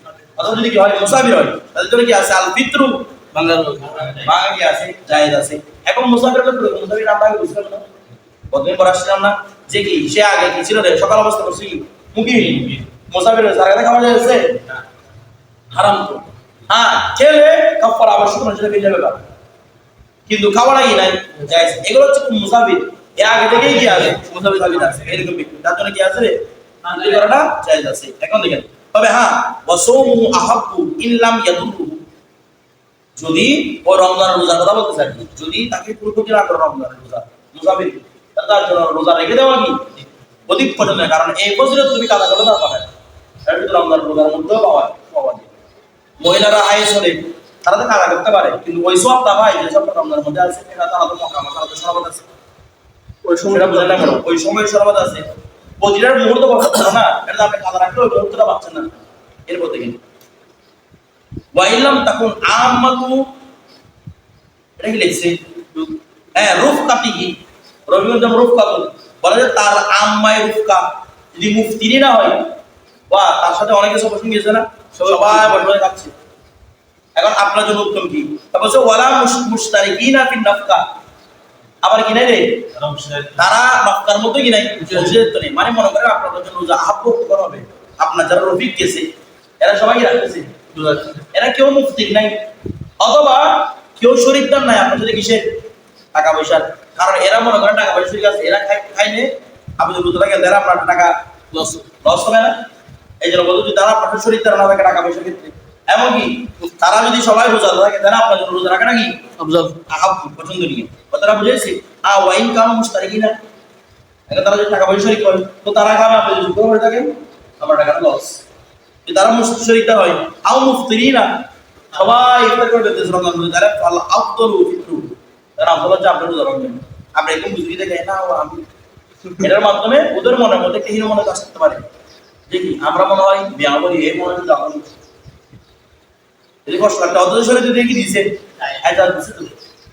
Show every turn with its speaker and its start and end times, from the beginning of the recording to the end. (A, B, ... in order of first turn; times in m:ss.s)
0:00.4-0:03.1 A
0:03.3-0:04.3 B
0:04.2-0:07.9 A
0:08.5-0:14.6 A
0:12.3-0:12.8 B
0:15.7-0:19.2 A
0:20.3-0:32.0 A
0:21.4-0:21.8 B
0:23.4-0:25.2 B
0:26.8-0:27.2 B
0:33.2-0:39.9 A
0:40.5-0:42.9 A
0:43.4-0:45.5 A
0:46.2-0:52.3 A
0:53.2-0:54.2 B
0:53.4-1:00.0 A
1:01.5-1:03.3 A
1:04.8-1:05.4 A
1:06.3-1:07.4 A
1:07.9-1:12.5 A
1:13.1-1:16.1 A
1:14.9-1:15.6 B
1:17.2-1:20.8 A
1:21.8-1:22.7 A
1:22.8-1:23.4 B
1:23.4-1:30.6 A
1:24.8-1:25.3 B
1:30.7-1:31.2 B
1:31.3-1:32.4 A
1:33.0-1:35.6 A
1:36.1-1:41.2 A
1:41.5-1:41.9 B
1:42.0-1:42.6 A
1:43.2-1:49.2 A
1:49.4-1:49.8 B
1:49.9-1:53.4 A
1:54.3-1:58.4 A
1:59.0-2:01.4 A
2:01.9-2:08.6 A
2:09.3-2:11.8 A
2:12.5-2:14.9 A
2:16.6-2:19.6 A